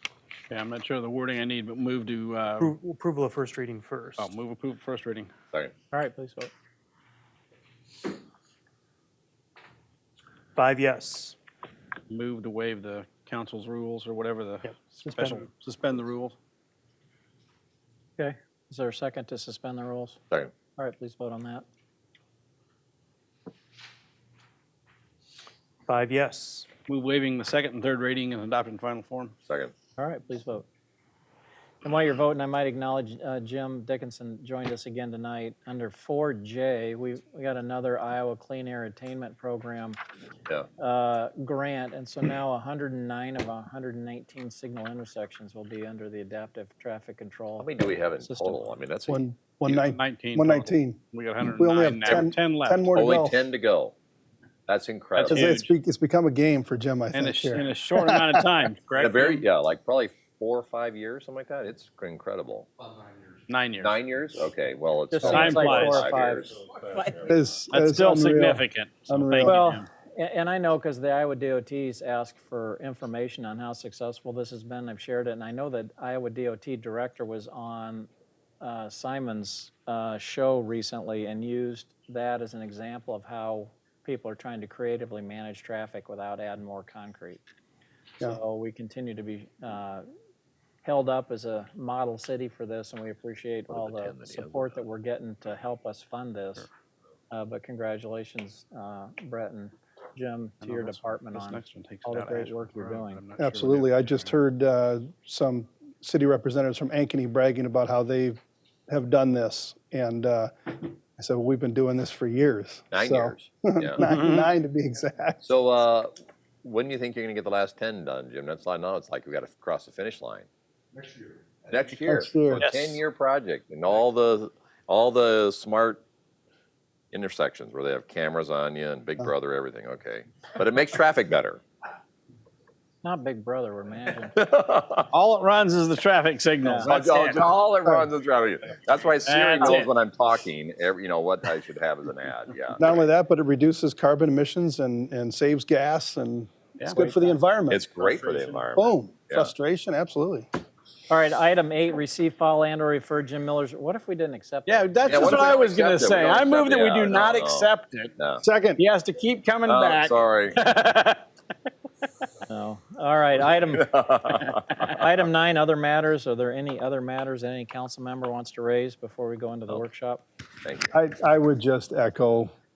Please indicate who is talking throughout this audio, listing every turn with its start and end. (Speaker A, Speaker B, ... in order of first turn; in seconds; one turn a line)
Speaker A: 0.5-2.7
Speaker B: 2.6-4.3
Speaker A: 4.2-5.3
Speaker C: 5.9-6.5
Speaker B: 10.6-11.3
Speaker A: 12.1-16.3
Speaker B: 14.6-15.4
Speaker C: 18.2-20.2
Speaker C: 20.8-21.6
Speaker B: 25.9-26.7
Speaker A: 26.9-29.3
Speaker D: 29.5-29.7
Speaker C: 30.0-30.6
Speaker C: 31.8-40.0
Speaker C: 40.8-48.7
Speaker D: 47.6-49.2
Speaker E: 49.1-53.4
Speaker A: 49.7-52.9
Speaker D: 52.9-54.0
Speaker D: 54.7-55.5
Speaker A: 55.1-55.7
Speaker E: 55.3-58.4
Speaker A: 57.1-59.4
Speaker D: 59.0-62.7
Speaker A: 63.5-64.4
Speaker D: 63.8-66.6
Speaker C: 65.1-66.5
Speaker A: 65.2-66.0
Speaker E: 67.2-69.6
Speaker A: 67.7-69.8
Speaker C: 69.4-78.1
Speaker C: 78.6-87.4
Speaker C: 88.2-90.0
Speaker C: 90.8-96.7
Speaker D: 93.7-94.7
Speaker C: 97.3-103.2
Speaker A: 100.6-104.3
Speaker E: 103.4-115.5
Speaker D: 112.9-114.0
Speaker A: 114.0-114.5
Speaker D: 115.4-120.5
Speaker D: 121.7-126.0
Speaker E: 121.9-122.7
Speaker A: 122.6-123.0
Speaker D: 127.1-131.6
Speaker C: 133.0-134.3
Speaker D: 134.4-135.1
Speaker A: 135.1-137.5
Speaker C: 136.6-136.9
Speaker D: 136.8-143.0
Speaker A: 139.2-139.9
Speaker E: 142.8-147.9
Speaker C: 146.9-147.4
Speaker D: 147.7-149.5
Speaker A: 148.0-148.6
Speaker E: 148.7-150.5
Speaker C: 151.1-155.5
Speaker A: 154.7-158.1
Speaker D: 155.0-158.4
Speaker E: 158.4-158.8
Speaker A: 158.8-161.2
Speaker D: 159.6-160.6
Speaker C: 162.5-170.2
Speaker D: 163.8-164.8
Speaker D: 170.6-170.9
Speaker E: 170.9-172.5